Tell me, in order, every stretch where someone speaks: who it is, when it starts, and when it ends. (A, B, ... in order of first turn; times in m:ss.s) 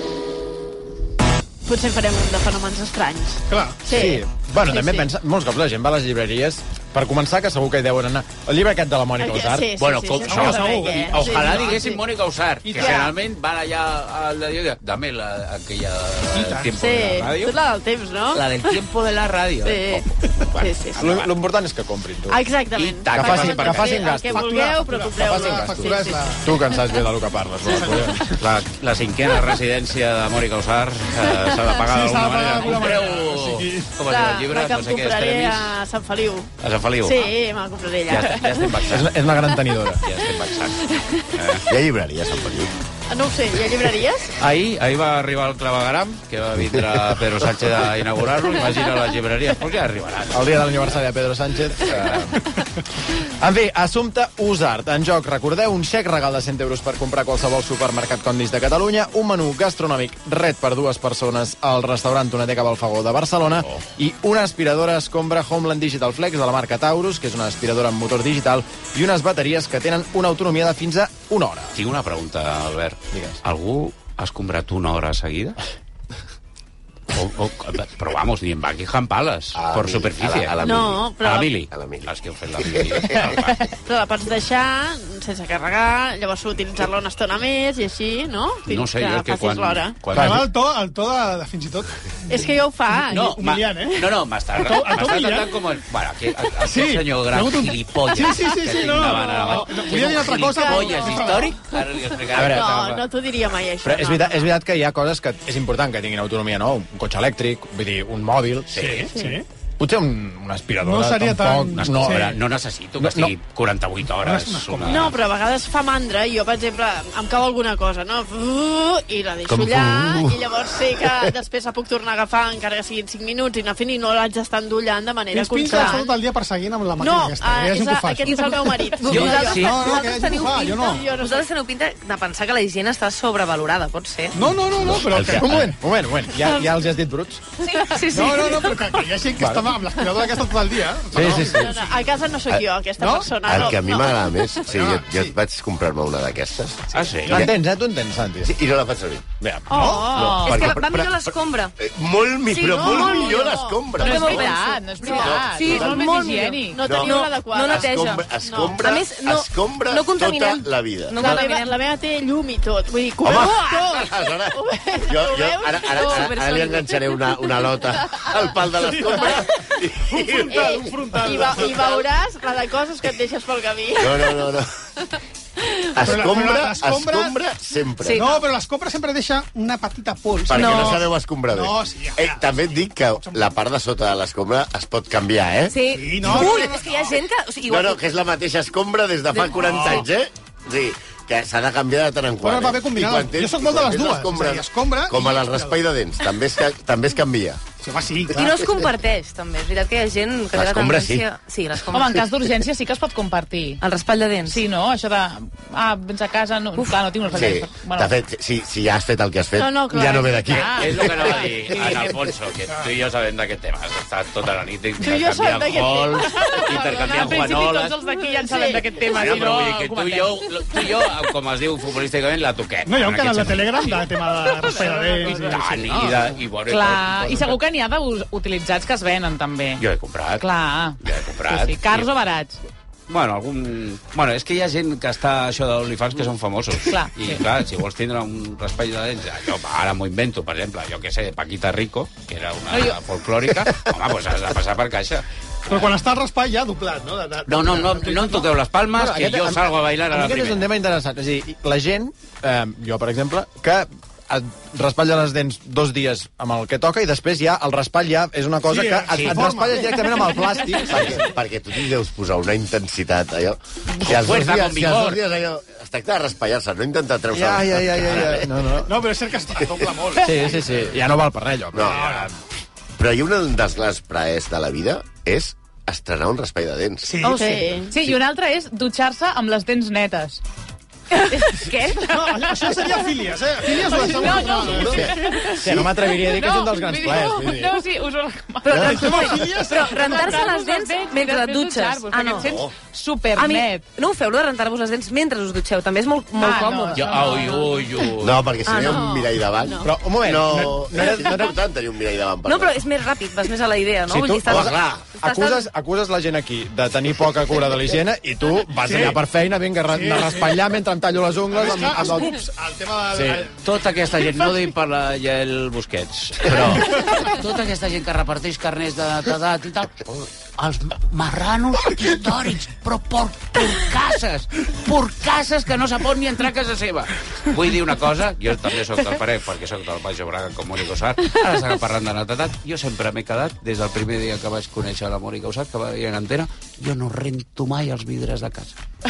0:01.7-0:05.1 A
0:03.5-0:03.8 B
0:03.9-0:09.7 C
0:09.2-0:12.0 A
0:09.8-0:17.6 D
0:10.2-0:11.8 B
0:12.7-0:13.0 B
0:12.7-0:13.1 A
0:16.3-0:16.7 B
0:16.8-0:18.8 A
0:18.3-0:21.3 D
0:19.6-0:21.0 A
0:21.0-0:22.4 C
0:22.3-0:26.4 A
0:22.8-0:24.1 D
0:23.1-0:25.9 C
0:24.2-0:26.5 B
0:26.4-0:28.4 C
0:27.7-0:28.2 B
0:28.3-0:35.8 D
0:31.8-0:33.9 B
0:34.0-0:38.8 A
0:36.6-0:37.3 D
0:38.1-0:39.2 D
0:38.8-0:40.0 C
0:40.0-0:41.7 D
0:40.9-0:41.2 A
0:41.7-0:42.7 E
0:43.1-0:44.3 A
0:44.4-0:50.4 D
0:50.3-0:52.5 C
0:53.3-1:11.8 C
1:11.8-1:15.6 D
1:13.1-1:13.4 C
1:17.1-1:20.6 D
1:19.6-1:21.2 E
1:20.6-1:21.6 A
1:21.2-1:23.6 D
1:21.7-1:22.1 E
1:22.6-1:23.4 E
1:23.8-1:30.0 A
1:28.7-1:30.5 D
1:30.1-1:31.9 B
1:30.1-1:30.4 C
1:32.3-1:33.4 A
1:33.1-1:35.5 B
1:33.1-1:43.1 D
1:36.6-1:41.6 B
1:39.0-1:41.5 A
1:42.3-1:42.8 C
1:42.4-1:44.5 A
1:43.8-1:48.7 C
1:48.7-1:49.1 D
1:48.8-1:49.4 B
1:49.1-1:49.4 A
1:49.8-1:52.4 C
1:50.8-1:52.4 B
1:51.8-1:55.2 D
1:53.0-1:53.3 C
1:54.2-1:55.2 B
1:54.8-2:06.1 A
1:59.5-2:00.0 D
2:05.3-2:08.5 B
2:05.7-2:06.0 F
2:07.0-2:10.0 A
2:08.3-2:14.4 F
2:09.1-2:11.1 B
2:09.1-2:09.5 D
2:10.8-2:11.4 A
2:14.4-2:15.7 B
2:14.7-2:15.7 E
2:15.3-2:17.4 C
2:16.4-2:16.7 F
2:17.6-2:19.1 F
2:18.1-2:21.9 B
2:19.4-2:19.7 C
2:21.1-2:21.7 C
2:21.4-2:24.6 A
2:23.0-2:23.7 B
2:23.4-2:27.5 E
2:24.7-2:25.3 B
2:26.9-2:27.5 D
2:27.3-2:28.5 C
2:28.4-2:29.3 E
2:29.4-2:29.7 C
2:29.7-2:30.1 B
2:29.7-2:31.7 F
2:29.7-2:30.1 A
2:30.1-2:36.1 E
2:30.1-2:30.6 G
2:32.5-2:41.8 F
2:32.6-2:33.9 A
2:34.0-2:36.9 G
2:36.7-2:38.8 A
2:36.8-2:41.4 E
2:41.2-2:47.4 A
2:43.2-2:51.9 E
2:46.1-2:46.4 F
2:48.0-2:48.4 A
2:48.8-2:49.2 B
2:50.1-2:51.9 B
2:50.5-2:54.5 A
2:54.0-2:54.7 E
2:55.6-2:55.9 A
2:56.0-2:58.3 E
2:56.0-2:57.4 B
2:58.0-2:58.4 F
2:58.2-3:03.5 B
3:00.5-3:06.7 E
3:00.5-3:01.0 F
3:05.7-3:08.0 F
3:05.9-3:07.1 B
3:07.7-3:17.6 E
3:09.4-3:09.7 F
3:09.6-3:10.1 B
3:12.4-3:15.8 B
3:17.8-3:18.5 B
3:18.3-3:22.3 F
3:18.4-3:18.8 E
3:20.5-3:21.3 E
3:21.9-3:23.8 G
3:23.8-3:24.6 F
3:24.5-3:28.1 G
3:26.8-3:27.1 F
3:27.3-3:31.9 E
3:29.6-3:30.8 A
3:30.5-3:32.2 G
3:30.7-3:38.0 D
3:35.0-3:39.1 A
3:36.4-3:40.4 G
3:39.1-3:44.0 D
3:42.9-3:46.1 B
3:44.6-3:45.4 G
3:45.3-3:47.6 D
3:46.7-3:49.8 G
3:49.8-3:50.5 D
3:50.4-3:52.6 G
3:51.0-3:52.1 D
3:53.1-4:05.2 D
3:56.9-3:57.4 G
4:02.7-4:03.0 G
4:05.7-4:08.5 B
4:07.5-4:10.7 D
4:08.9-4:21.2 C
4:18.7-4:20.3 B
4:19.1-4:19.4 D
4:20.9-4:28.5 E
4:23.9-4:25.2 D
4:27.3-4:29.0 C
4:28.8-4:30.7 B
4:29.6-4:30.1 E
4:30.2-4:32.3 C
4:31.7-4:32.2 E
4:31.9-4:32.3 B
4:33.0-4:37.3 E
4:37.0-4:37.6 B
4:37.2-4:38.0 A
4:37.9-4:40.4 G
4:41.1-4:43.1 G
4:42.0-4:45.2 B
4:43.7-4:53.8 G
4:44.1-4:45.9 E
4:45.6-4:47.8 C
4:48.6-4:52.6 F
4:48.7-4:49.2 E
4:48.8-4:50.4 B
4:53.3-4:57.6 F
4:56.4-4:57.7 G
4:56.9-4:58.5 D
4:58.2-5:02.9 E
4:58.6-4:59.1 F
4:58.8-4:59.9 A
4:59.8-5:01.6 C
5:02.4-5:05.7 F
5:04.1-5:12.4 C
5:04.4-5:05.1 E
5:08.8-5:09.2 B
5:09.9-5:10.6 B
5:11.5-5:13.5 B
5:13.1-5:13.5 C
5:13.6-5:38.8 D